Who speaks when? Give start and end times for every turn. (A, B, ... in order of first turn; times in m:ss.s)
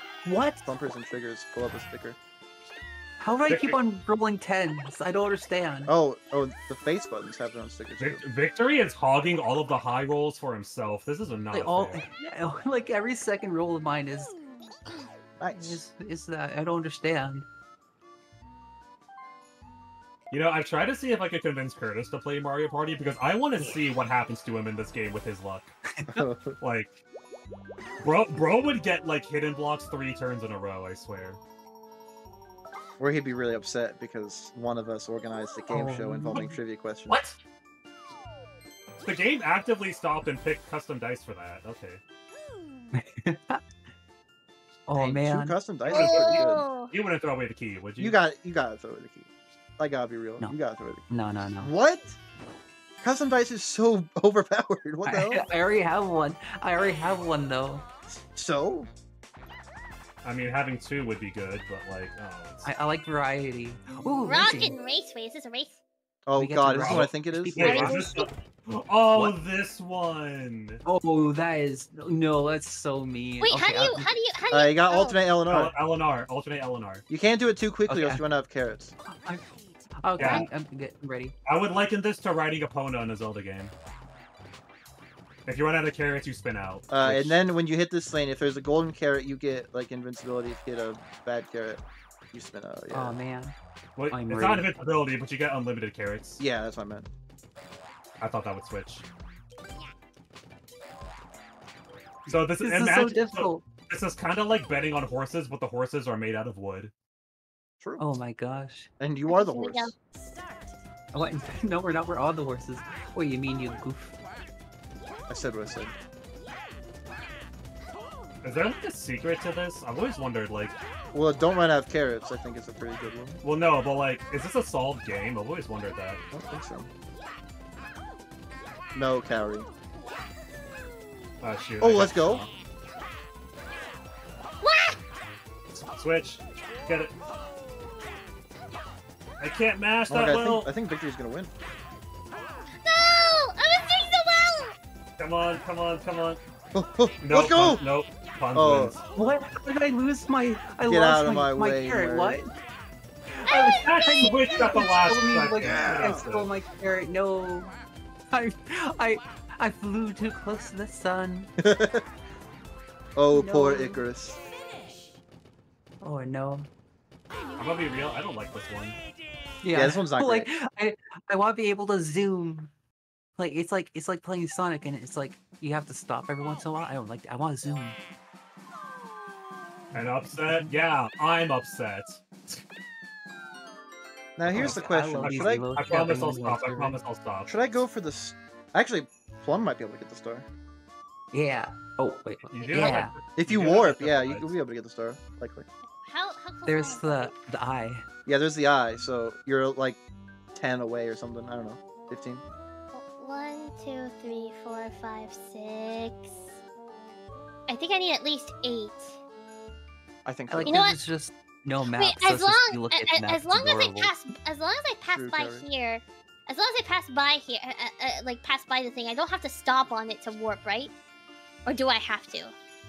0:00.2-0:00.6 A
0:00.6-0:02.2 B
0:03.2-0:05.9 A
0:03.5-0:03.8 C
0:05.9-0:08.2 B
0:08.0-0:12.0 C
0:11.5-0:14.4 A
0:15.4-0:15.8 B
0:15.5-0:17.4 A
0:20.3-0:25.7 C
0:26.0-0:26.2 A
0:26.1-0:26.6 B
0:26.6-0:27.0 C
0:28.0-0:31.4 C
0:33.0-0:37.2 B
0:35.7-0:36.5 A
0:37.1-0:37.4 C
0:39.0-0:42.0 C
0:42.9-0:43.6 A
0:44.9-0:45.6 A
0:45.0-0:46.6 B
0:45.9-0:46.9 D
0:45.9-0:48.2 C
0:48.0-0:51.0 B
0:51.1-0:51.7 A
0:51.6-0:52.2 B
0:53.0-0:55.4 B
0:55.0-0:57.8 A
0:58.1-0:58.9 B
1:00.2-1:02.7 C
1:02.6-1:04.8 A
1:04.3-1:05.8 D
1:06.2-1:07.9 B
1:06.4-1:08.3 A
1:06.7-1:10.8 C
1:07.6-1:08.2 D
1:10.8-1:14.1 A
1:13.4-1:15.2 D
1:14.5-1:15.7 B
1:15.4-1:17.0 C
1:17.1-1:18.9 B
1:17.9-1:18.2 A
1:19.0-1:21.3 A
1:20.2-1:20.5 C
1:20.2-1:20.5 D
1:21.4-1:23.7 C
1:25.4-1:27.4 C
1:26.9-1:31.8 B
1:32.3-1:33.2 B
1:32.9-1:33.6 A
1:34.0-1:36.4 C
1:34.1-1:34.7 A
1:36.4-1:37.1 B
1:38.2-1:39.0 C
1:42.2-1:46.9 C
1:42.6-1:43.6 A
1:48.0-1:48.9 A
1:49.0-1:49.9 B
1:49.3-1:49.9 D
1:51.1-1:54.2 A
1:55.3-1:55.9 B
1:58.4-2:00.7 C
2:01.1-2:03.4 B
2:03.4-2:06.2 C
2:06.3-2:06.9 B
2:08.9-2:09.7 B
2:11.4-2:12.5 C
2:11.8-2:12.4 B
2:14.6-2:15.0 D
2:15.7-2:17.1 C
2:19.4-2:20.7 C
2:20.1-2:21.5 B
2:22.8-2:24.7 D
2:25.2-2:26.4 C
2:26.7-2:27.8 B
2:27.2-2:29.1 C
2:28.5-2:29.0 B
2:29.1-2:32.5 A
2:30.8-2:32.4 B
2:33.4-2:37.7 A
2:33.5-2:33.9 D
2:33.7-2:36.5 C
2:35.6-2:36.2 B
2:38.3-2:41.5 A
2:41.6-2:42.0 B
2:43.2-2:44.4 B
2:43.3-2:44.0 A
2:46.0-2:46.7 A
2:47.6-2:49.0 C
2:49.6-2:52.7 A
2:49.7-2:50.5 B
2:53.4-2:58.0 A
2:59.9-3:02.6 C
3:04.4-3:05.7 B
3:04.5-3:07.0 A
3:04.5-3:07.5 C
3:07.5-3:10.4 B
3:11.3-3:13.1 A
3:12.4-3:14.5 C
3:12.6-3:13.0 D
3:13.4-3:15.6 B
3:16.0-3:17.3 D
3:16.6-3:18.0 A
3:18.2-3:20.0 B
3:20.5-3:22.4 B
3:22.9-3:26.4 D
3:27.7-3:29.2 D
3:30.2-3:30.9 B
3:30.5-3:34.1 A
3:30.6-3:31.0 D
3:31.9-3:40.9 D
3:35.1-3:35.6 B
3:41.6-3:42.5 D